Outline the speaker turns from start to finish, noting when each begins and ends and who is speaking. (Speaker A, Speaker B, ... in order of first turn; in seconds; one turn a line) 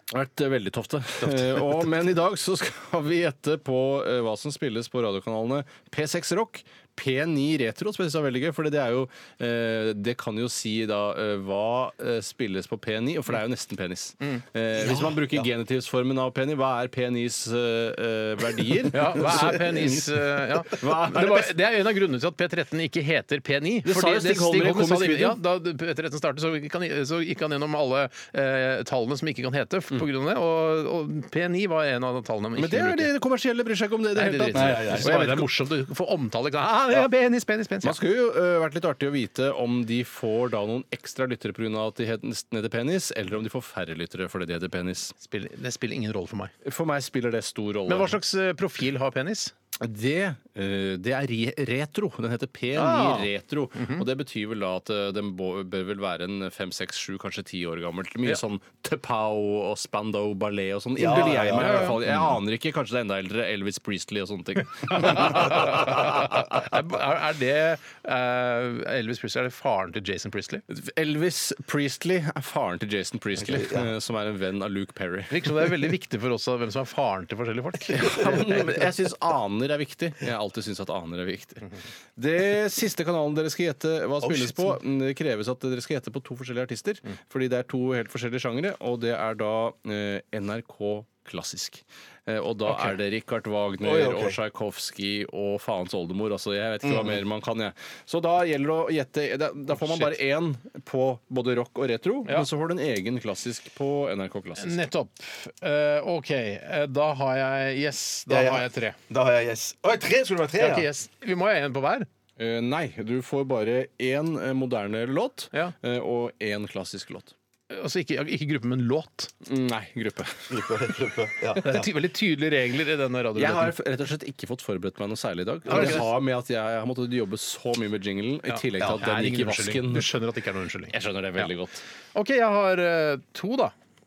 Speaker A: 0.1-19.9
Speaker B: 1.2-1.8
Speaker B: 14.8-15.5
Speaker C: 18.9-33.1
Speaker B: 19.3-20.0
Speaker A: 20.6-21.6
Speaker A: 23.8-25.4
Speaker A: 32.6-35.5
Speaker C: 34.1-38.0
Speaker B: 34.5-35.2
Speaker A: 37.8-45.1
Speaker C: 45.2-46.5
Speaker A: 46.6-48.2
Speaker C: 47.9-49.5
Speaker A: 49.8-66.1
Speaker C: 52.7-54.0
Speaker B: 61.0-62.2
Speaker C: 61.1-62.0
Speaker C: 64.9-70.6
Speaker A: 70.7-75.6
Speaker B: 73.4-73.9
Speaker C: 75.3-78.5
Speaker A: 77.9-104.8
Speaker B: 84.2-84.8
Speaker B: 93.8-94.4
Speaker B: 96.8-97.2
Speaker C: 104.6-109.0
Speaker B: 108.3-110.9
Speaker C: 110.6-112.1
Speaker A: 112.4-117.3
Speaker C: 117.7-119.3
Speaker A: 119.4-120.7
Speaker B: 120.5-121.9
Speaker C: 121.6-123.7
Speaker A: 123.3-130.1
Speaker C: 125.7-126.1
Speaker B: 125.7-126.0
Speaker C: 128.5-131.5
Speaker A: 130.9-131.8
Speaker C: 132.1-133.7